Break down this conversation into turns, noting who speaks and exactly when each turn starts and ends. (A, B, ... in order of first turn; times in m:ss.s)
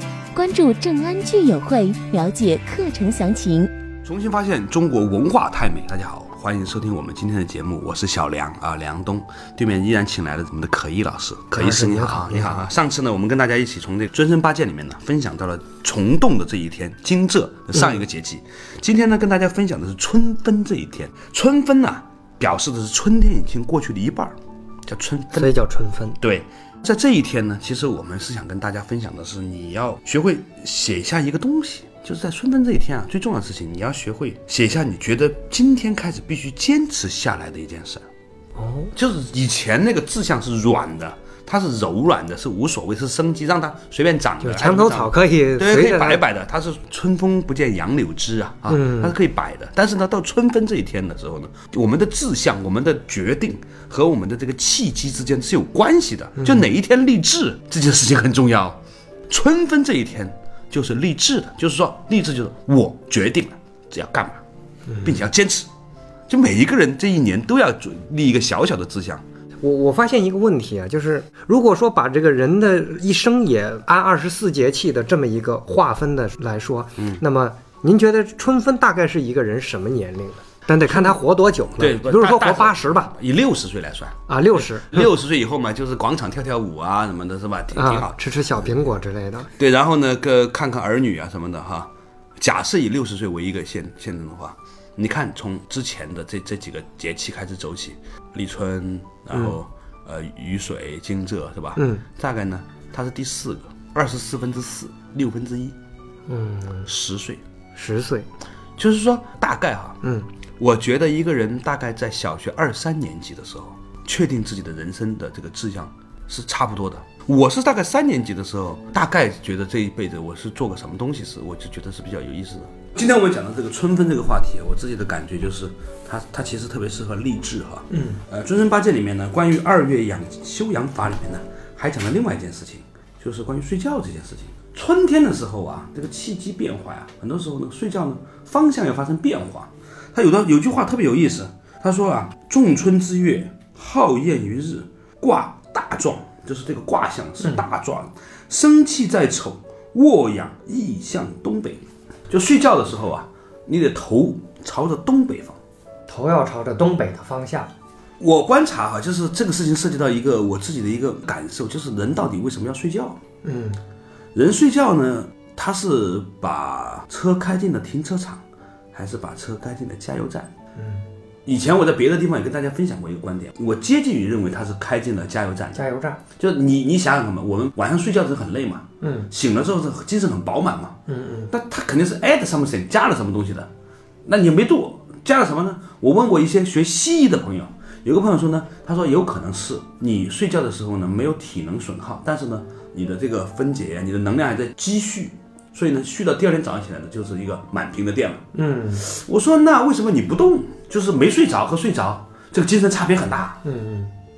0:00.3-0:03.7 A
0:04.0-0:24.4 B
0:11.5-0:12.7 C
0:17.7-0:18.0 C
0:24.9-0:25.5 B
0:25.3-0:26.2 C
0:26.2-0:38.1 B
0:38.6-0:38.9 C
0:38.9-1:04.4 B
0:44.4-0:46.2 C
0:48.7-0:49.1 C
0:56.4-0:56.7 C
1:04.9-1:05.2 C
1:05.0-1:05.7 B
1:06.3-1:09.2 B
1:09.6-1:23.1 C
1:20.9-1:21.2 B
1:21.8-1:28.9 B
1:24.3-1:25.1 C
1:27.7-1:29.5 C
1:29.6-1:45.8 B
1:39.3-1:39.6 C
1:41.8-1:42.0 C
1:46.3-1:46.9 C
1:46.8-1:47.4 B
1:47.8-1:48.3 C
1:48.8-1:50.0 B
1:50.0-1:50.3 C
1:50.6-2:35.6 B
2:07.9-2:08.2 C
2:36.1-2:37.7 C
2:38.2-2:43.2 B
2:43.4-2:43.8 C
2:44.3-2:48.4 B
2:48.9-2:50.5 B
2:50.8-2:51.0 C
2:51.4-2:55.8 B
2:55.7-2:56.2 C
2:56.4-3:01.0 B
2:59.0-2:59.3 C
3:01.1-3:01.5 C
3:01.5-3:03.7 B
3:04.2-3:18.4 B
3:18.5-3:19.0 C
3:19.0-3:23.6 B
3:23.6-3:24.1 C